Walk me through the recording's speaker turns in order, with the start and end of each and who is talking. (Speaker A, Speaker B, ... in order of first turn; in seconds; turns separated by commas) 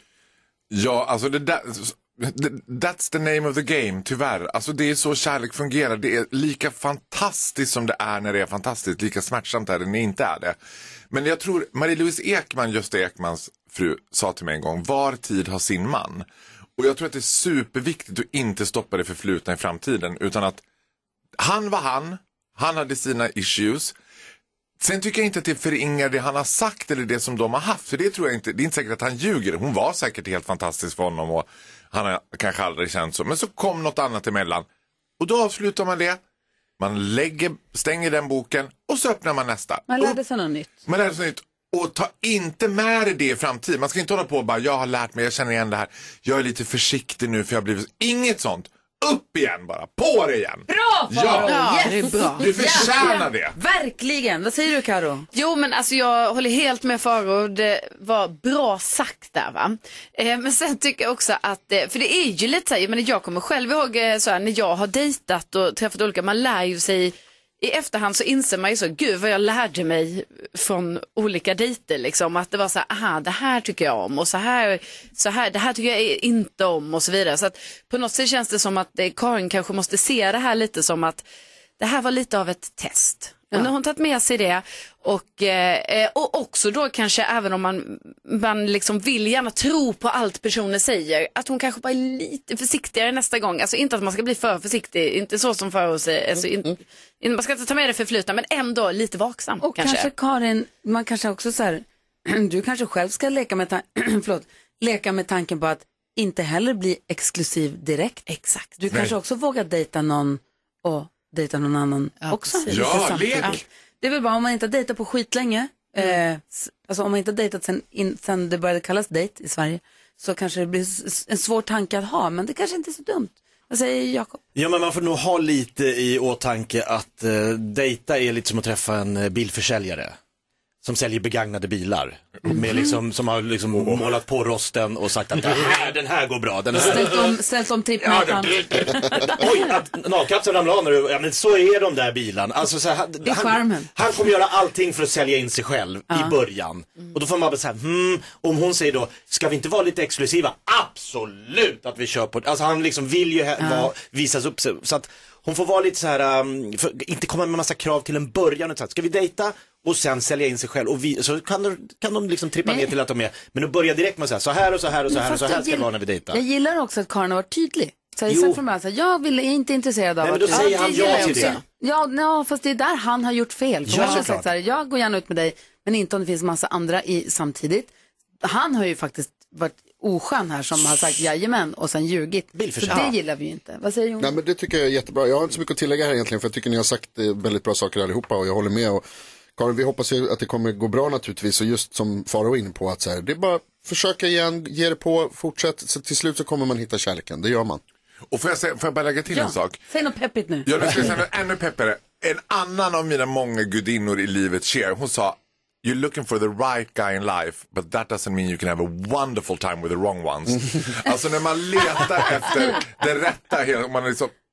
Speaker A: 0.7-10.6, Speaker A: 11.1-16.3, Speaker A: 16.8-20.6, Speaker A: 21.4-24.0, Speaker A: 24.8-34.7, Speaker A: 35.2-36.2, Speaker A: 36.8-40.2, Speaker B: 39.9-40.7, Speaker A: 40.9-53.6, Speaker B: 50.7-55.3, Speaker C: 51.4-53.2, Speaker C: 55.3-81.2, Speaker C: 81.8-100.1, Speaker B: 99.6-108.3, Speaker C: 108.3-108.8, Speaker B: 108.8-124.4, Speaker A: 108.9-109.2, Speaker C: 112.2-112.9, Speaker A: 112.7-113.6, Speaker D: 124.5-130.2, Speaker D: 130.8-137.3, Speaker A: 133.7-134.1, Speaker B: 136.7-139.5, Speaker D: 138.4-166.4, Speaker B: 143.2-143.9, Speaker B: 146.1-146.3, Speaker B: 153.6-153.9, Speaker B: 165.1-177.9, Speaker D: 168.3-168.6, Speaker D: 170.2-171.6, Speaker C: 170.5-171.6, Speaker D: 173.8-174.5, Speaker C: 174.0-174.2, Speaker B: 178.4-184.3, Speaker D: 182.6-183.2, Speaker E: 184.2-189.0, Speaker E: 189.6-197.8, Speaker A: 198.3-199.8, Speaker B: 199.3-200.7, Speaker A: 200.7-214.3